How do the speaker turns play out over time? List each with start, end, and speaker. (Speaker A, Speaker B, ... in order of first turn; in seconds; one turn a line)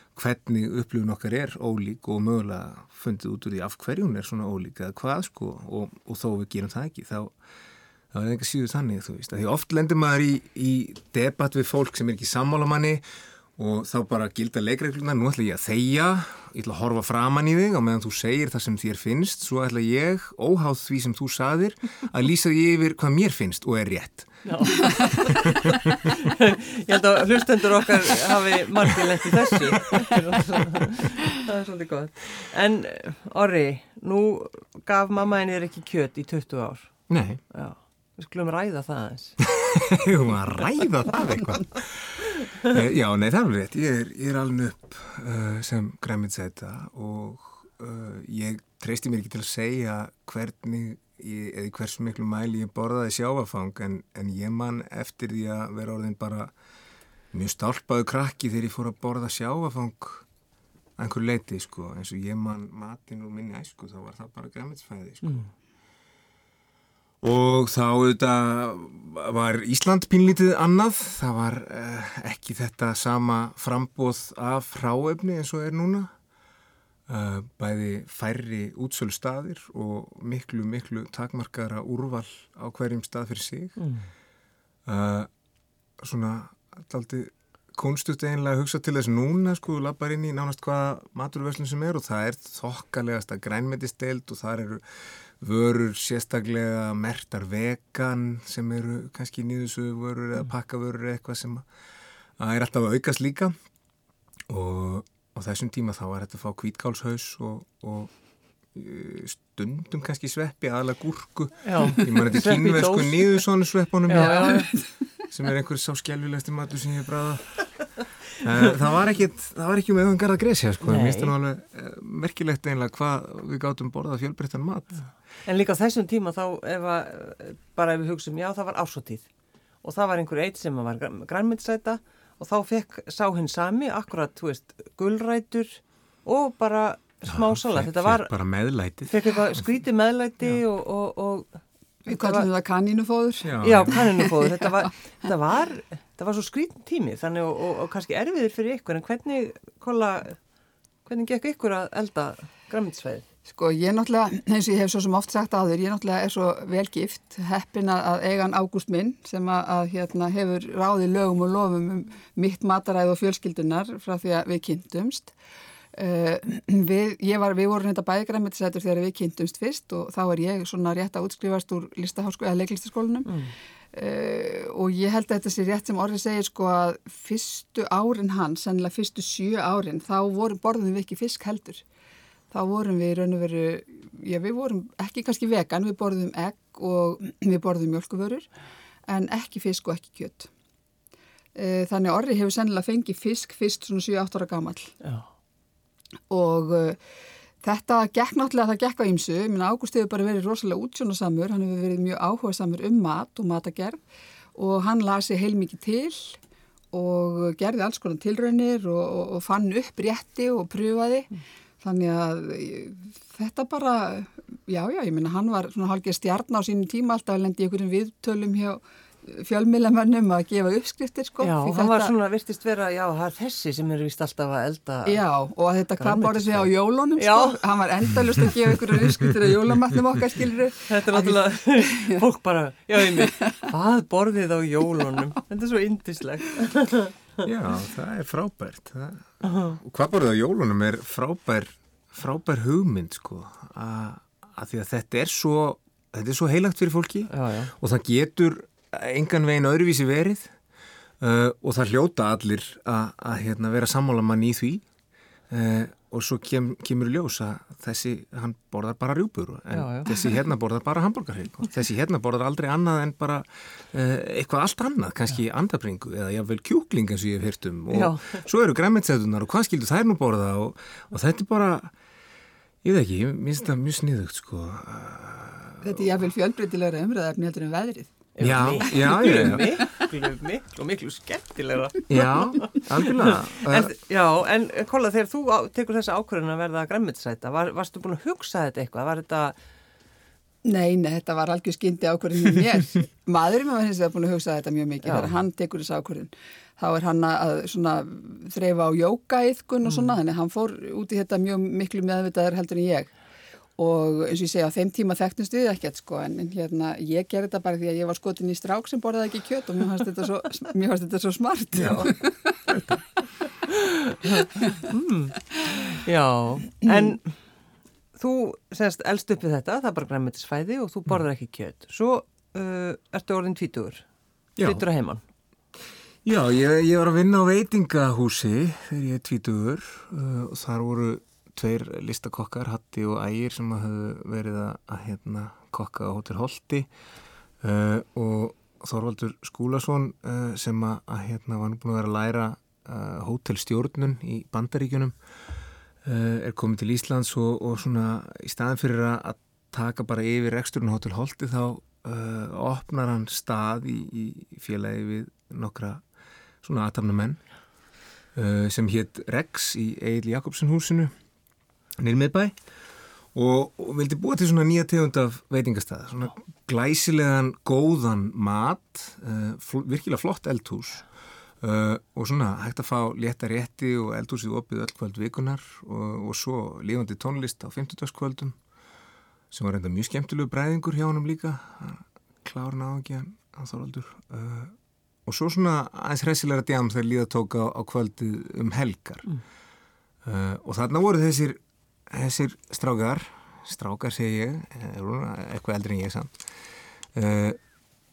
Speaker A: 0.1-7.3
Speaker A: 8.1-13.0
Speaker A: 13.6-25.8
Speaker B: 24.4-25.4
Speaker B: 26.2-39.4
Speaker A: 37.1-37.4
Speaker A: 39.5-56.5
Speaker A: 57.3-60.2
Speaker A: 61.0-65.4
Speaker A: 67.2-76.1
Speaker A: 77.1-83.8
Speaker B: 83.8-84.0
Speaker A: 84.8-85.3
Speaker A: 86.0-101.7
Speaker A: 102.4-103.5
Speaker A: 104.5-108.1
Speaker A: 108.7-114.7
Speaker B: 111.6-113.4
Speaker B: 114.1-114.7
Speaker A: 115.3-117.8
Speaker A: 118.4-125.0
Speaker B: 120.8-121.3
Speaker B: 125.5-129.3
Speaker B: 129.8-138.4
Speaker A: 137.3-139.6
Speaker B: 139.1-141.6
Speaker C: 142.1-144.5
Speaker B: 142.1-142.5
Speaker A: 143.4-144.0
Speaker B: 143.6-150.4
Speaker B: 151.0-153.2
Speaker C: 153.5-165.3
Speaker C: 165.9-173.3
Speaker B: 173.3-173.5
Speaker C: 173.9-181.8
Speaker C: 182.5-188.5
Speaker C: 189.1-190.5
Speaker C: 191.6-194.9
Speaker C: 196.3-197.0
Speaker C: 197.6-204.0
Speaker C: 204.5-206.4
Speaker C: 206.9-211.3
Speaker C: 211.8-222.1
Speaker B: 221.4-225.2
Speaker C: 225.1-232.2
Speaker B: 226.0-227.6
Speaker B: 230.9-237.4
Speaker A: 237.4-250.5
Speaker B: 239.4-239.8
Speaker B: 247.3-247.7
Speaker A: 251.2-254.8
Speaker A: 255.5-271.9
Speaker B: 259.7-260.3
Speaker B: 267.9-268.4
Speaker A: 272.8-276.0
Speaker C: 275.8-278.2
Speaker B: 278.4-289.6
Speaker A: 278.4-279.8
Speaker C: 278.9-280.0
Speaker A: 282.1-283.9
Speaker C: 290.6-303.1
Speaker B: 295.0-295.3
Speaker C: 303.8-312.5
Speaker A: 311.7-312.1
Speaker A: 312.7-313.0
Speaker B: 313.7-317.4
Speaker B: 318.1-324.0
Speaker A: 324.6-324.8
Speaker B: 324.6-325.2
Speaker A: 326.2-336.9
Speaker A: 337.6-345.1
Speaker A: 346.0-356.0
Speaker A: 356.6-357.4
Speaker A: 358.3-361.1
Speaker A: 362.0-362.6
Speaker A: 363.3-371.1
Speaker A: 371.6-378.6
Speaker A: 379.5-389.3
Speaker A: 390.2-396.3
Speaker A: 397.1-397.6